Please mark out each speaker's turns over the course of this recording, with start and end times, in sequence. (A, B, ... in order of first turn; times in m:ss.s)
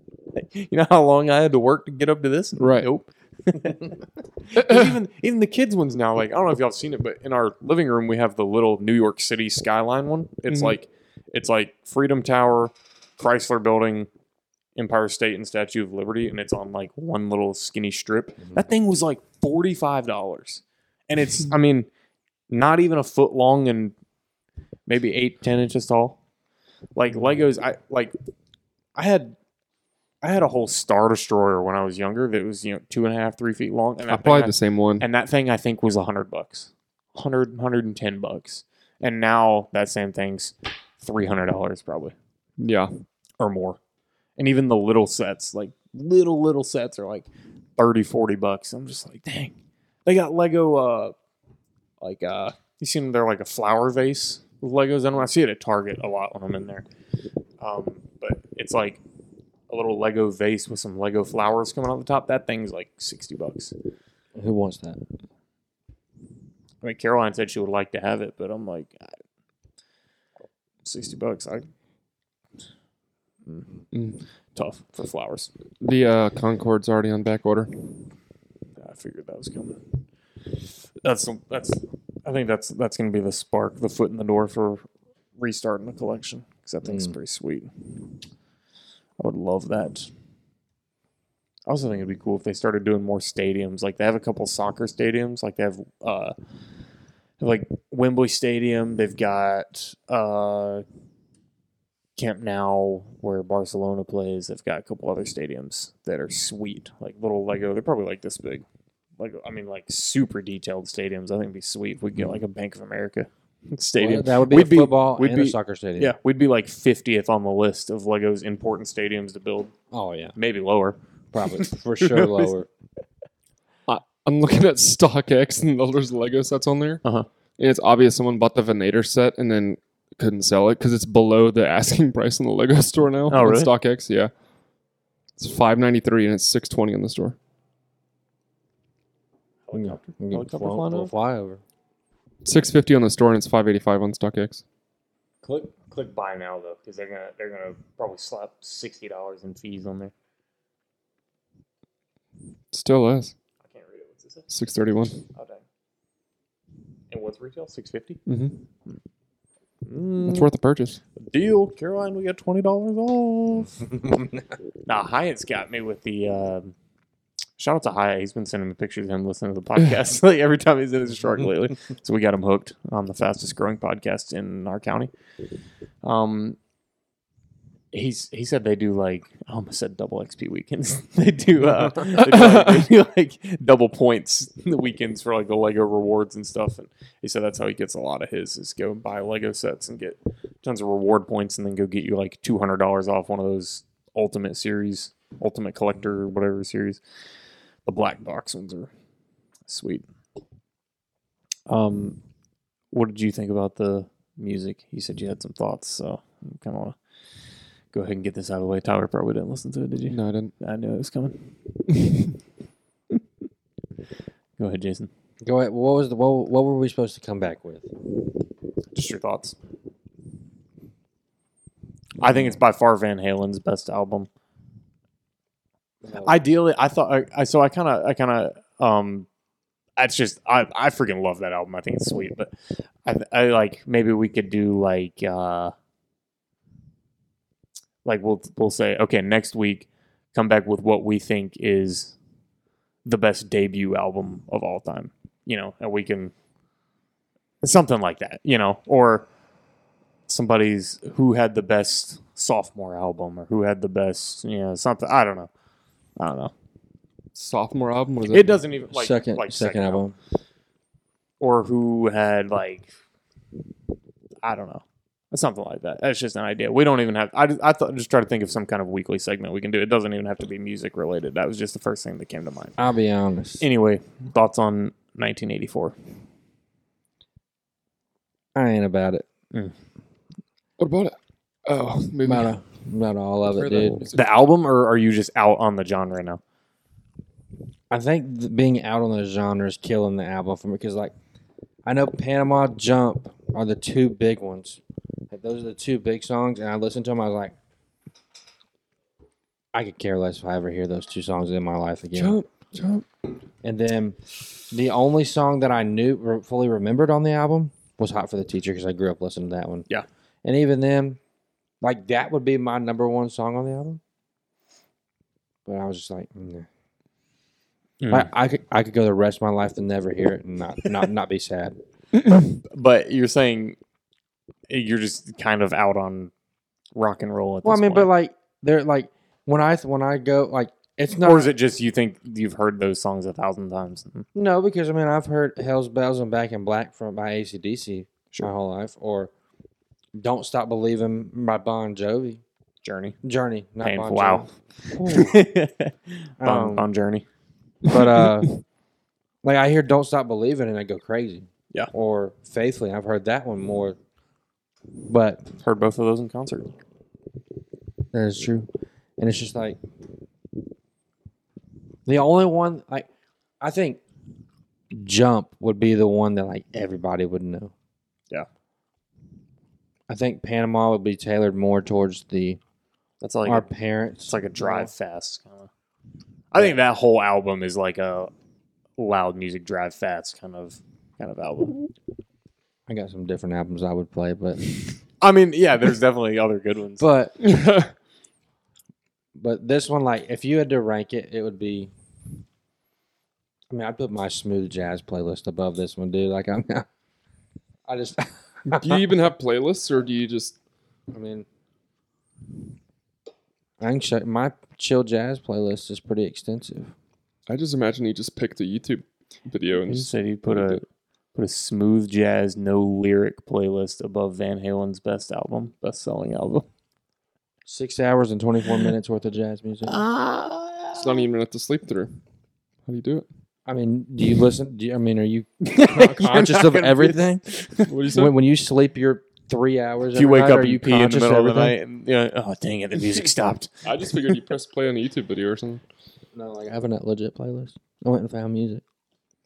0:00.3-0:14.1 A
0:02.6-0:02.9 B
0:04.6-0:04.9 B
0:10.5-0:10.7 B
0:14.8-0:21.9 A
0:22.5-0:23.9 A
0:24.9-0:26.2 A
0:26.9-0:28.1 A
0:29.0-0:29.3 A
0:30.2-0:42.1 A
0:34.1-0:35.0 B
0:42.6-0:42.9 B
0:43.4-0:43.8 A
0:44.4-0:49.5 A
0:50.0-0:51.1 A
0:52.0-0:56.8 A
0:57.6-0:59.0 A
0:59.7-1:03.7 A
1:04.3-1:05.0 C
1:06.8-1:09.2 A
1:10.8-1:11.7 A
1:13.9-1:14.2 B
1:14.5-1:15.5 A
1:15.8-1:17.7 B
1:18.8-1:19.8 A
1:21.0-1:24.8 A
1:25.4-1:27.7 A
1:26.8-1:27.1 C
1:29.2-1:30.1 A
1:31.7-1:36.3 A
1:37.4-1:40.8 A
1:42.2-1:48.6 A
1:49.2-1:59.7 A
1:54.0-1:56.1 C
1:59.9-2:00.3 C
2:00.4-2:02.5 A
2:01.3-2:02.7 C
2:03.9-2:07.0 B
2:07.6-2:14.3 B
2:13.3-2:13.7 A
2:15.4-2:17.4 B
2:19.7-2:21.1 A
2:19.7-2:21.6 C
2:22.4-2:24.6 B
2:25.4-2:30.1 A
2:32.7-2:33.3 B
2:33.6-2:34.5 A
2:34.5-2:35.2 B
2:35.3-2:35.6 A
2:37.1-2:38.2 A
2:38.3-2:38.6 B
2:39.8-2:40.5 A
2:40.2-2:41.0 B
2:41.2-2:43.9 A
2:44.9-2:46.7 A
2:47.6-2:55.1 A
2:56.0-2:56.6 A
2:57.9-3:17.0 A
3:02.1-3:02.8 B
3:17.8-3:18.9 A
3:19.7-3:20.0 A
3:21.7-3:22.2 A
3:22.9-3:27.0 A
3:27.9-3:31.6 A
3:30.1-3:30.5 B
3:34.6-3:35.1 A
3:35.4-3:37.9 C
3:38.9-3:39.5 A
3:42.2-3:44.3 A
3:46.0-3:46.4 C
3:46.2-3:49.3 A
3:50.0-3:52.5 A
3:53.0-3:55.7 A
3:58.0-4:02.2 A
4:03.0-4:06.3 A
4:07.6-4:09.3 A
4:10.3-4:15.5 A
4:16.2-4:16.5 A
4:17.3-4:18.6 B
4:18.3-4:20.0 A
4:18.9-4:20.1 C
4:21.4-4:22.9 A
4:24.4-4:32.7 A
4:32.8-4:33.6 C
4:33.6-4:35.9 A
4:38.5-4:39.2 C
4:40.8-4:42.5 B
4:42.2-4:44.0 C
4:43.5-4:44.3 B
4:44.1-4:46.4 A
4:47.9-4:51.1 C
4:51.8-4:57.5 C
4:59.7-5:02.4 C
5:02.1-5:03.0 B
5:03.6-5:04.2 C
5:04.7-5:09.8 C
5:10.4-5:11.2 C
5:11.8-5:14.0 C
5:15.6-5:16.7 C
5:18.0-5:18.3 A
5:18.1-5:21.8 C
5:22.3-5:23.8 A
5:24.7-5:26.3 A
5:26.9-5:28.1 A
5:27.6-5:31.5 C
5:31.2-5:34.3 A
5:34.3-5:39.3 C
5:40.1-5:42.4 C
5:42.8-5:43.2 A
5:43.2-5:45.4 C
5:43.8-5:44.5 A
5:45.0-5:47.2 A
5:46.4-5:46.8 C
5:47.8-5:48.5 C
5:49.4-5:54.0 C
5:55.0-5:55.5 C
5:55.6-5:56.7 A
5:58.1-5:59.8 C
6:02.0-6:03.1 C
6:03.6-6:04.0 C
6:04.9-6:07.7 C
6:10.1-6:12.6 C
6:13.2-6:13.7 A
6:13.4-6:14.9 C
6:14.3-6:15.7 A
6:16.5-6:18.3 A
6:19.0-6:21.8 A
6:22.9-6:24.7 C
6:25.2-6:27.1 A
6:27.0-6:27.4 C
6:27.4-6:27.9 B
6:29.4-6:31.9 C
6:33.7-6:36.9 C
6:37.8-6:39.0 C
6:38.7-6:40.6 B
6:41.1-6:41.4 C
6:43.8-6:46.9 C
6:47.5-6:50.8 B
6:49.9-6:50.8 A
6:51.3-6:56.6 A
6:57.6-7:00.0 C
6:59.9-7:01.1 A
7:00.9-7:02.1 B
7:02.8-7:03.2 B
7:03.7-7:07.4 C
7:05.6-7:07.9 A
7:07.8-7:08.3 B
7:08.1-7:11.8 C
7:10.1-7:14.4 A
7:13.8-7:15.8 B
7:16.3-7:18.8 C